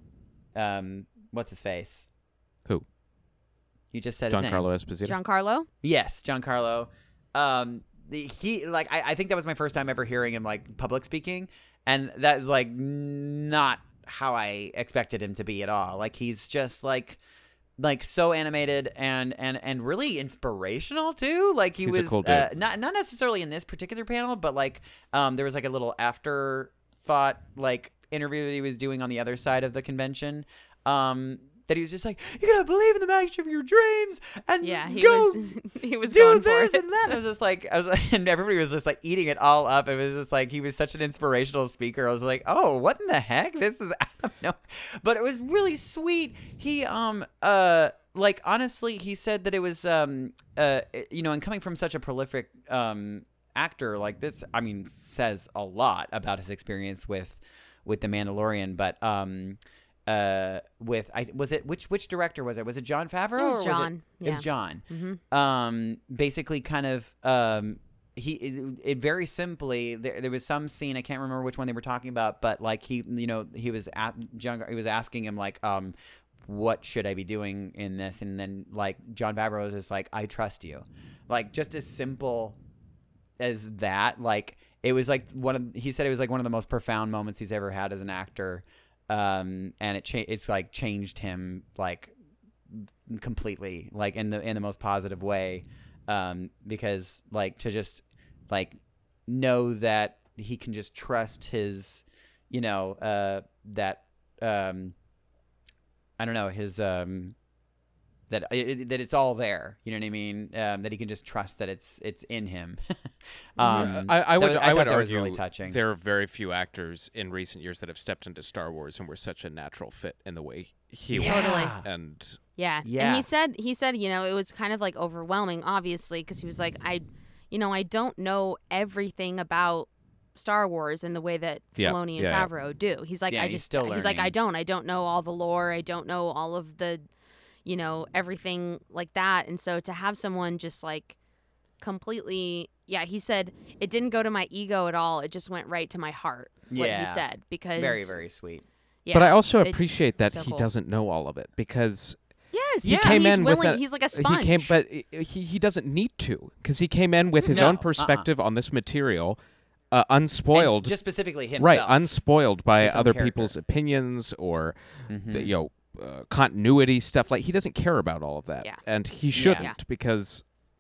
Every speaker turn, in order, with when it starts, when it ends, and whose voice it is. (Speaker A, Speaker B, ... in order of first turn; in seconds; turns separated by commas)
Speaker A: 0.6-2.1, Speaker A: 3.9-4.7, Speaker B: 4.3-5.2, Speaker C: 5.0-5.7, Speaker A: 5.8-17.2, Speaker A: 17.8-35.5, Speaker B: 21.8-22.5, Speaker C: 34.6-37.2, Speaker A: 36.1-76.0, Speaker C: 63.4-65.2, Speaker A: 76.5-82.6, Speaker A: 83.4-92.1, Speaker A: 92.7-105.0, Speaker A: 106.2-107.4, Speaker A: 108.3-115.8, Speaker C: 113.6-113.9, Speaker B: 113.7-122.4, Speaker A: 121.1-121.8, Speaker C: 121.3-121.7, Speaker C: 122.6-137.1, Speaker A: 122.8-123.2, Speaker B: 131.8-132.5, Speaker A: 133.3-134.3, Speaker C: 137.7-141.2, Speaker C: 141.8-148.2, Speaker A: 146.7-148.6, Speaker C: 149.1-150.7, Speaker B: 149.1-152.2, Speaker C: 152.5-154.8, Speaker B: 152.8-159.4, Speaker A: 152.8-153.2, Speaker C: 157.4-157.8, Speaker A: 157.5-158.3, Speaker B: 159.9-161.0, Speaker A: 160.5-162.1, Speaker B: 161.5-170.4, Speaker A: 162.8-163.5, Speaker A: 165.1-165.5, Speaker A: 169.3-169.7